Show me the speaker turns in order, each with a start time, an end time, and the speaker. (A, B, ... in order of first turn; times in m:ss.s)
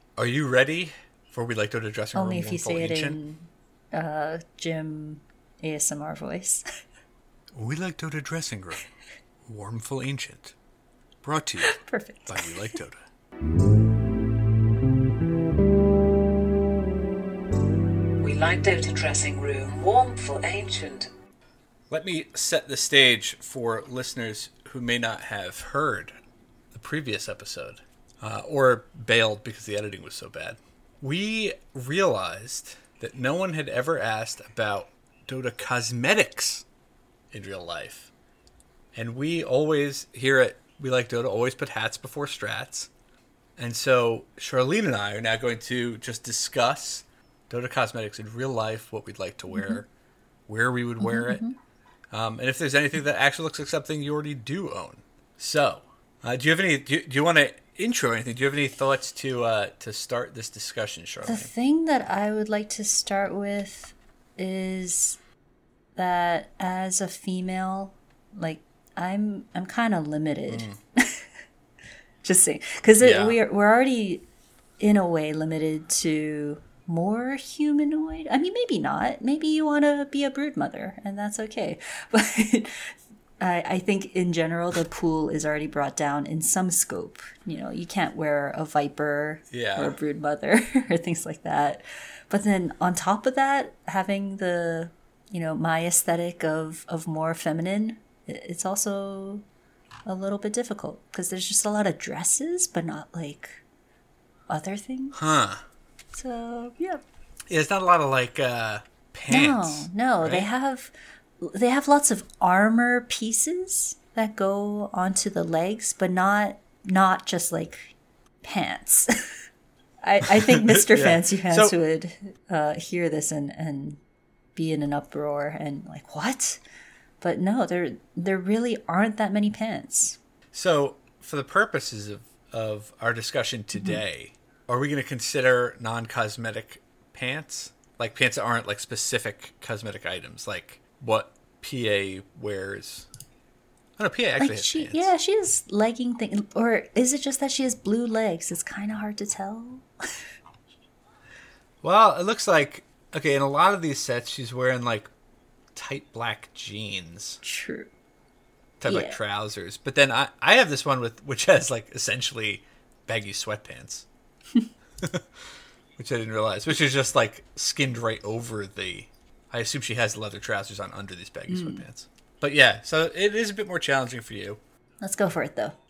0:00.2-0:03.2 A
0:02.1-0:06.6 B
0:07.5-0:08.9 A
0:09.4-0:10.5 A
0:11.2-0:13.0 A
0:11.6-0:12.6 B
0:18.2-0:21.1 C
0:21.9-0:26.1 A
0:26.7-0:36.6 A
0:37.3-0:38.1 A
0:38.9-0:42.9 A
0:43.6-0:49.9 A
0:49.5-0:49.8 B
0:50.5-0:51.4 A
0:51.0-0:51.6 B
0:52.1-1:01.5 A
1:01.2-1:05.2 B
1:06.0-1:11.3 B
1:10.5-1:10.8 A
1:12.2-1:14.2 B
1:13.0-1:13.4 A
1:14.8-1:39.4 B
1:29.5-1:30.0 A
1:40.0-1:43.6 B
1:44.5-1:45.2 B
1:45.1-1:45.6 A
1:46.1-1:47.0 B
1:47.5-1:50.5 A
1:49.3-1:59.4 B
2:00.0-2:04.0 B
2:00.4-2:01.8 A
2:04.5-2:06.6 B
2:07.2-2:10.2 B
2:10.5-2:23.1 A
2:13.8-2:14.0 B
2:24.0-2:25.1 A
2:24.4-2:30.2 B
2:31.8-2:35.1 A
2:35.7-2:37.4 A
2:37.4-2:37.9 B
2:38.8-2:44.1 A
2:38.8-2:39.2 B
2:45.0-2:45.3 A
2:46.0-2:54.6 A
2:51.5-2:51.8 B
2:55.0-2:55.8 B